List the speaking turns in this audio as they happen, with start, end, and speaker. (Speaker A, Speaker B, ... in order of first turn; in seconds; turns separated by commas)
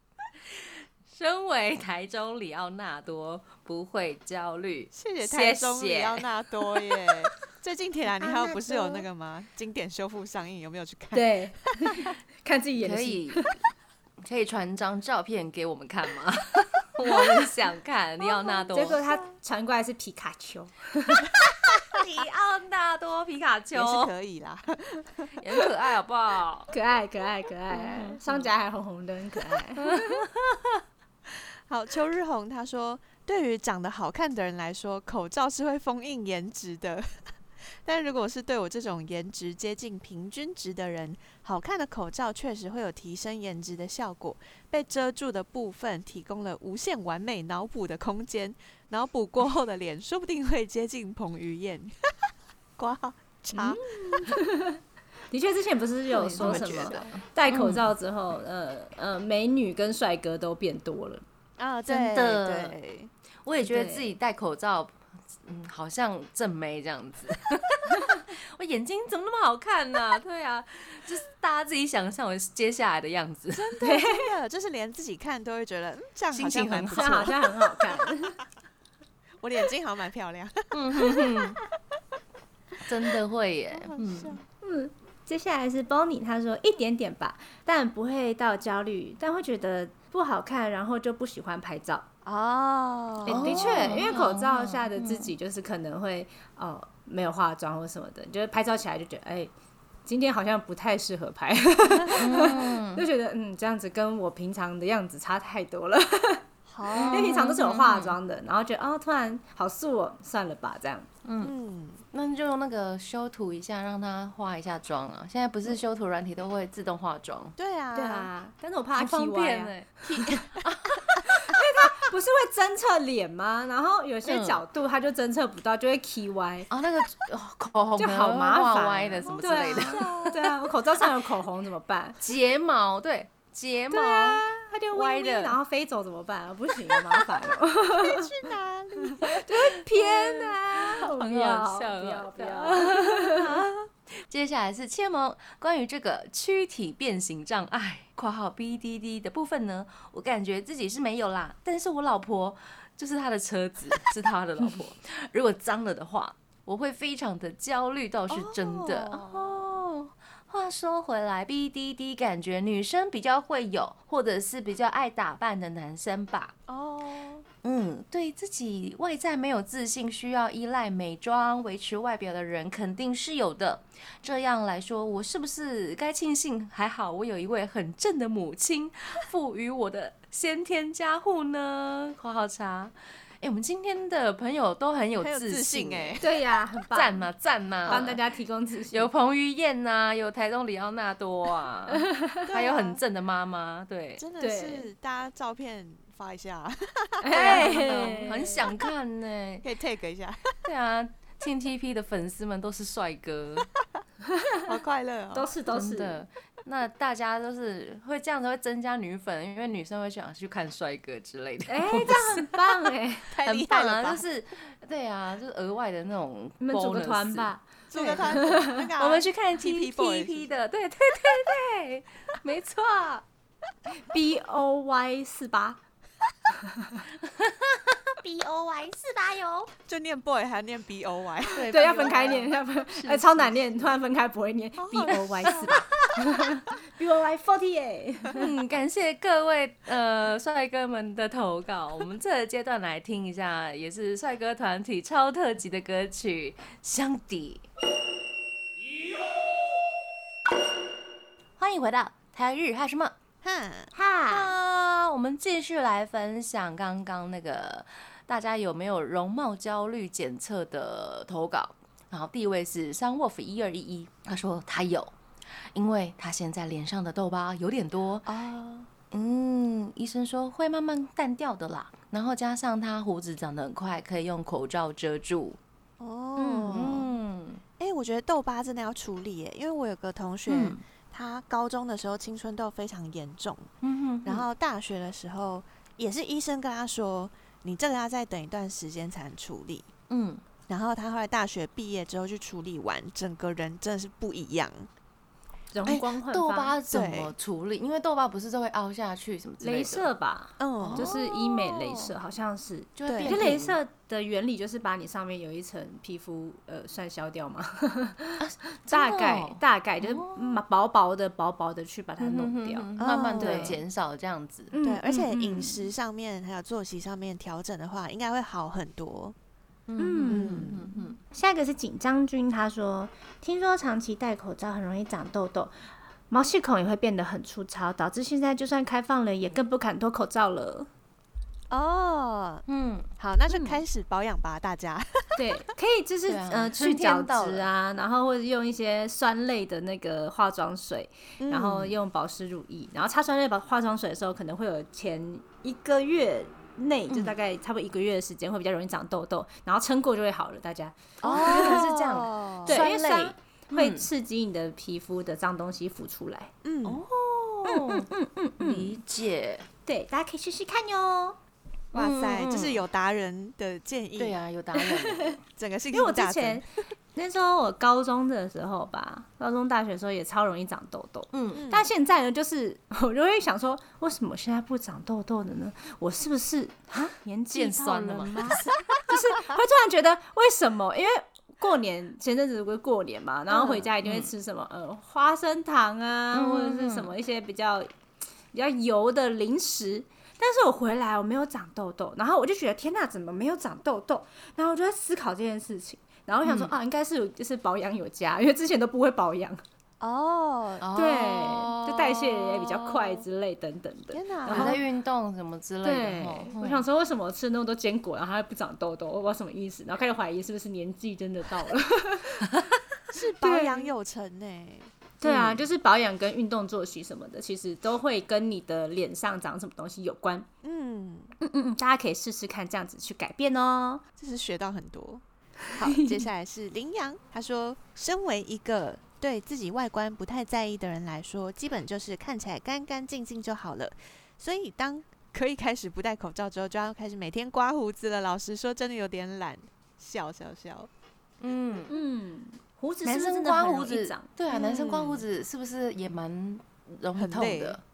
Speaker A: 0.5-6.2, Speaker B: 4.9-12.1, Speaker C: 8.2-9.1, Speaker D: 11.1-13.6, Speaker A: 12.8-13.5, Speaker A: 14.2-19.1, Speaker D: 18.7-21.3, Speaker A: 21.8-24.1, Speaker B: 23.7-25.7, Speaker A: 25.4-26.7, Speaker D: 26.7-30.3, Speaker A: 28.0-28.4, Speaker A: 29.8-30.8, Speaker B: 31.7-51.9, Speaker B: 52.8-54.3, Speaker D: 54.2-54.8, Speaker D: 55.3-61.2, Speaker A: 56.1-57.9, Speaker B: 56.4-57.1, Speaker B: 61.6-63.1, Speaker A: 61.9-62.8, Speaker A: 63.5-73.7, Speaker D: 63.6-64.1, Speaker B: 73.5-78.0, Speaker D: 73.8-74.3, Speaker A: 76.3-77.4, Speaker D: 76.9-78.4, Speaker B: 79.4-81.5, Speaker A: 80.7-81.6, Speaker A: 82.8-84.4, Speaker B: 83.7-84.4, Speaker D: 84.6-92.1, Speaker B: 92.2-94.0, Speaker D: 93.2-99.5, Speaker A: 93.3-95.3, Speaker D: 100.1-111.1, Speaker A: 102.1-103.1, Speaker B: 106.7-107.4, Speaker A: 106.9-108.2, Speaker A: 111.2-111.5, Speaker B: 111.4-112.0, Speaker A: 112.1-117.5, Speaker B: 117.6-118.3, Speaker D: 118.0-120.4, Speaker A: 119.0-121.3, Speaker D: 121.2-126.7, Speaker A: 124.2-124.6, Speaker A: 126.7-130.4, Speaker D: 128.0-132.2, Speaker B: 129.3-130.5, Speaker A: 132.2-135.6, Speaker D: 133.9-138.3, Speaker B: 137.9-139.4, Speaker D: 139.1-143.5, Speaker A: 139.9-166.5, Speaker B: 158.3-159.8, Speaker B: 166.7-167.5, Speaker A: 167.6-186.3, Speaker B: 185.2-186.3, Speaker D: 186.2-187.3, Speaker A: 186.9-188.2, Speaker B: 187.8-188.2, Speaker D: 187.9-189.1, Speaker A: 188.9-194.2, Speaker B: 192.5-193.0, Speaker B: 194.2-198.4, Speaker D: 194.4-194.9, Speaker D: 197.2-198.6, Speaker A: 197.3-199.7, Speaker B: 199.6-200.6, Speaker A: 200.6-203.7, Speaker B: 204.7-205.5, Speaker D: 205.3-206.2, Speaker A: 205.7-212.5, Speaker D: 211.7-213.3, Speaker B: 213.3-214.3, Speaker A: 213.4-223.2, Speaker D: 216.6-218.8, Speaker B: 217.9-220.5, Speaker D: 224.0-225.8, Speaker D: 226.6-227.0, Speaker C: 228.2-229.7, Speaker B: 229.9-232.3, Speaker A: 231.5-233.9, Speaker D: 231.7-238.5, Speaker B: 234.8-236.1, Speaker A: 238.3-247.7, Speaker A: 251.6-253.1, Speaker B: 253.4-253.9, Speaker D: 254.0-254.5, Speaker A: 254.3-265.1, Speaker A: 265.8-268.3, Speaker B: 268.3-268.9, Speaker A: 269.1-275.6, Speaker B: 276.0-277.1, Speaker A: 276.6-277.6, Speaker B: 277.8-283.7, Speaker A: 280.5-280.8, Speaker A: 283.8-284.5, Speaker B: 284.2-289.9, Speaker A: 290.1-290.4, Speaker B: 290.7-294.9, Speaker D: 295.7-296.8, Speaker A: 295.9-300.1, Speaker B: 296.9-297.3, Speaker D: 299.6-313.8, Speaker B: 300.6-301.2, Speaker A: 300.8-302.1, Speaker A: 303.0-303.8, Speaker B: 303.1-303.4, Speaker A: 308.4-310.6, Speaker A: 312.2-315.7, Speaker B: 313.0-313.8, Speaker D: 314.7-315.1, Speaker B: 314.8-319.4, Speaker A: 319.9-321.2, Speaker D: 320.0-325.8, Speaker B: 320.3-320.9, Speaker D: 326.3-330.9, Speaker B: 331.7-332.6, Speaker A: 332.7-333.1, Speaker B: 333.2-335.4, Speaker D: 333.5-333.8, Speaker D: 335.4-351.9, Speaker A: 336.3-337.7, Speaker B: 341.4-341.8, Speaker A: 347.1-347.4, Speaker B: 351.2-352.8, Speaker A: 351.3-354.1, Speaker D: 352.7-356.5, Speaker B: 356.6-357.1, Speaker A: 356.8-359.7, Speaker D: 357.7-359.0, Speaker D: 359.9-361.4, Speaker A: 361.9-362.8, Speaker B: 361.9-364.4, Speaker A: 364.2-365.4, Speaker D: 364.8-365.4, Speaker B: 365.6-366.7, Speaker D: 365.9-387.9, Speaker A: 371.3-371.7, Speaker B: 371.5-371.9, Speaker A: 377.5-378.6, Speaker B: 378.7-378.9, Speaker A: 384.0-384.3, Speaker A: 386.3-387.1, Speaker D: 388.5-399.6, Speaker A: 396.4-396.7, Speaker B: 400.0-400.9, Speaker A: 400.8-403.0, Speaker D: 400.9-404.8, Speaker B: 404.1-404.8, Speaker A: 404.5-406.8, Speaker D: 405.8-412.5, Speaker B: 413.1-414.9, Speaker D: 413.4-413.9, Speaker D: 415.2-420.5, Speaker A: 415.2-415.6, Speaker B: 420.6-421.3, Speaker D: 421.4-424.0, Speaker B: 424.2-440.9, Speaker D: 425.8-426.2, Speaker A: 441.4-441.9, Speaker D: 441.9-445.2, Speaker A: 443.1-447.8, Speaker B: 447.2-447.8